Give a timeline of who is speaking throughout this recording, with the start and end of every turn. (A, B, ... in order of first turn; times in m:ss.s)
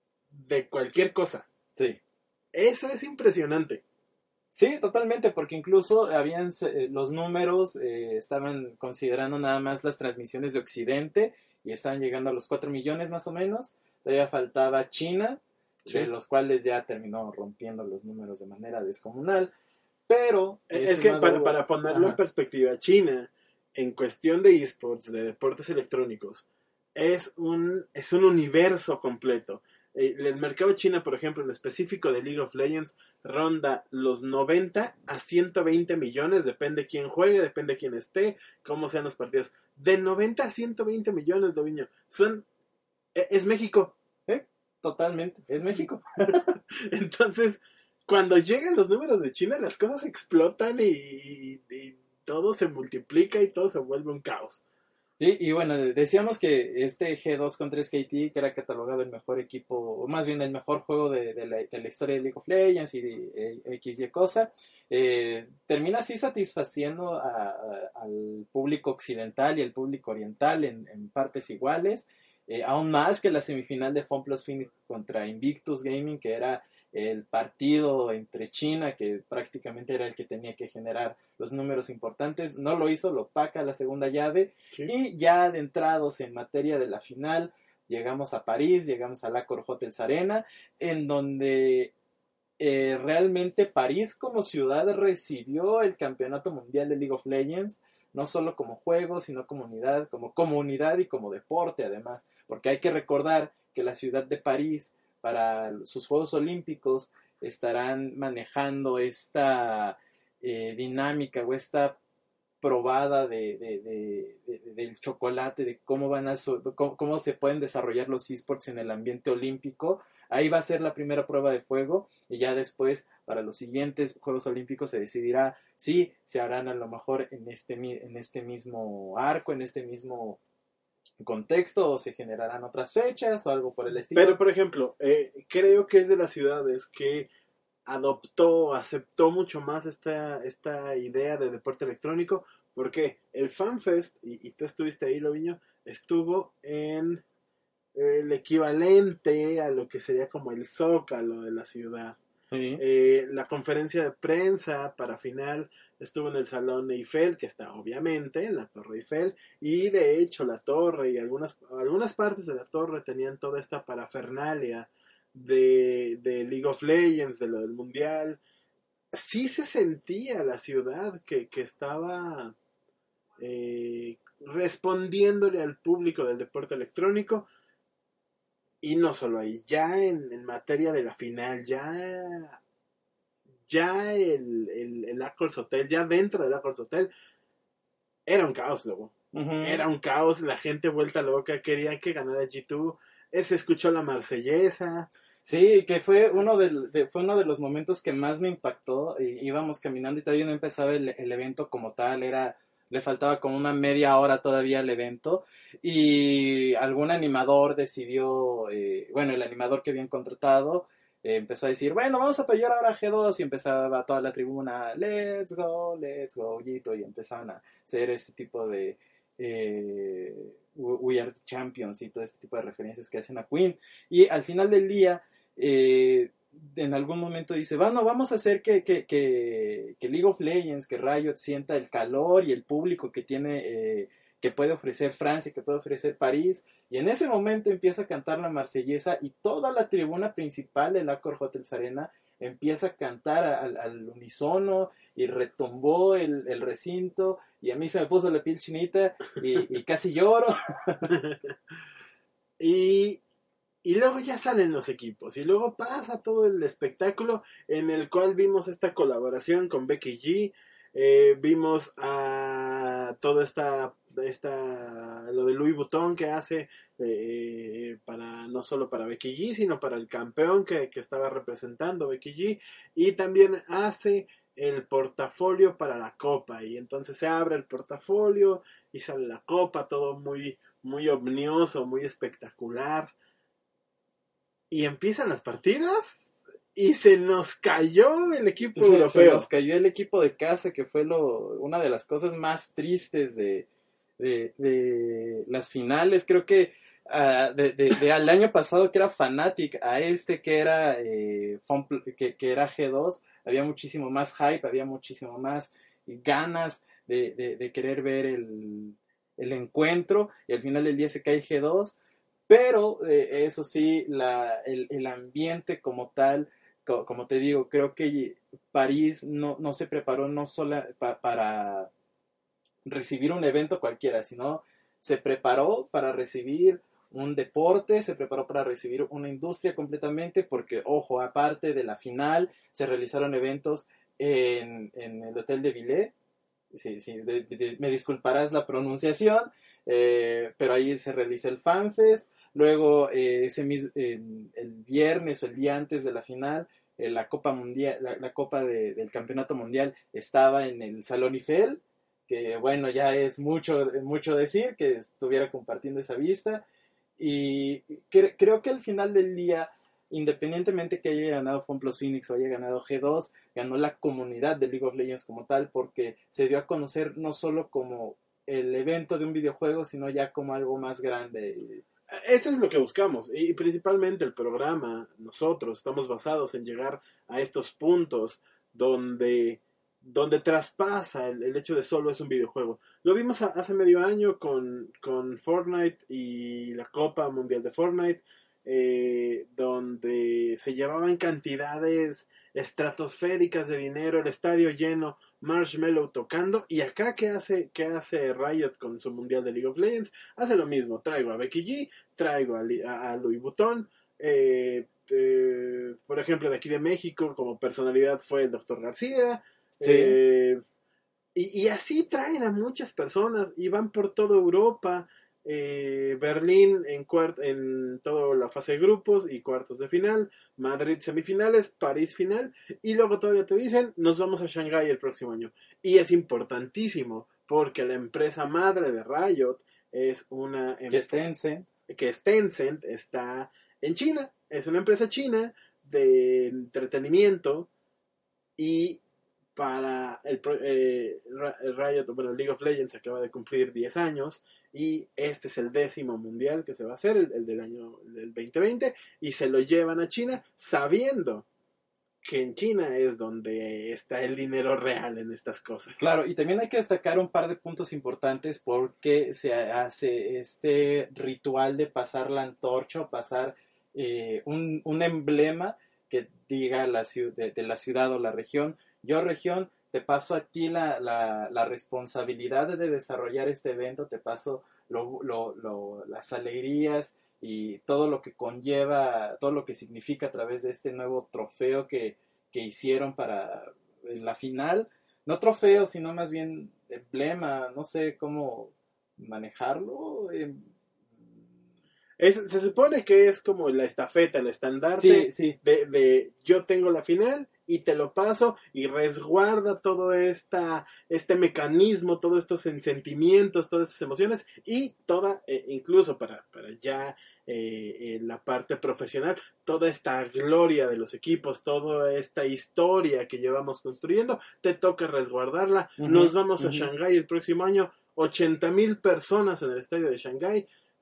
0:00.3-0:01.4 A
0:02.5-0:03.8 A
0:04.5-0:19.5 B
0:20.1-0:22.2 B
0:20.7-0:42.4 A
0:43.1-0:43.9 A
0:44.3-0:46.6 B
0:46.7-0:54.6 A
0:55.2-1:31.9 B
1:32.6-1:52.0 B
1:52.6-2:10.4 B
2:11.2-2:14.4 B
2:14.1-2:17.3 A
2:17.8-2:27.2 A
2:27.9-2:32.2 A
2:32.5-2:32.8 B
2:32.8-2:48.4 A
2:49.1-2:52.6 A
2:53.4-2:57.5 A
2:58.8-3:02.6 A
3:03.7-3:07.1 A
3:08.2-3:15.1 A
3:09.3-3:09.8 B
3:15.4-4:11.2 B
4:12.6-4:13.2 A
4:13.8-4:43.1 A
4:44.7-4:49.5 A
4:48.7-4:53.6 B
4:54.2-5:11.9 B
5:12.5-5:21.9 B
5:22.8-5:36.1 B
5:36.7-5:56.6 B
5:57.2-6:11.8 B
6:12.1-6:50.6 A
6:49.8-6:50.2 B
6:51.3-7:11.0 A
7:10.9-7:11.6 B
7:11.9-7:17.7 A
7:18.6-7:19.0 A
7:19.5-7:31.4 A
7:32.2-7:36.0 A
7:36.0-8:10.7 B
8:12.2-8:40.7 A
8:15.0-8:15.6 B
8:36.0-8:36.9 B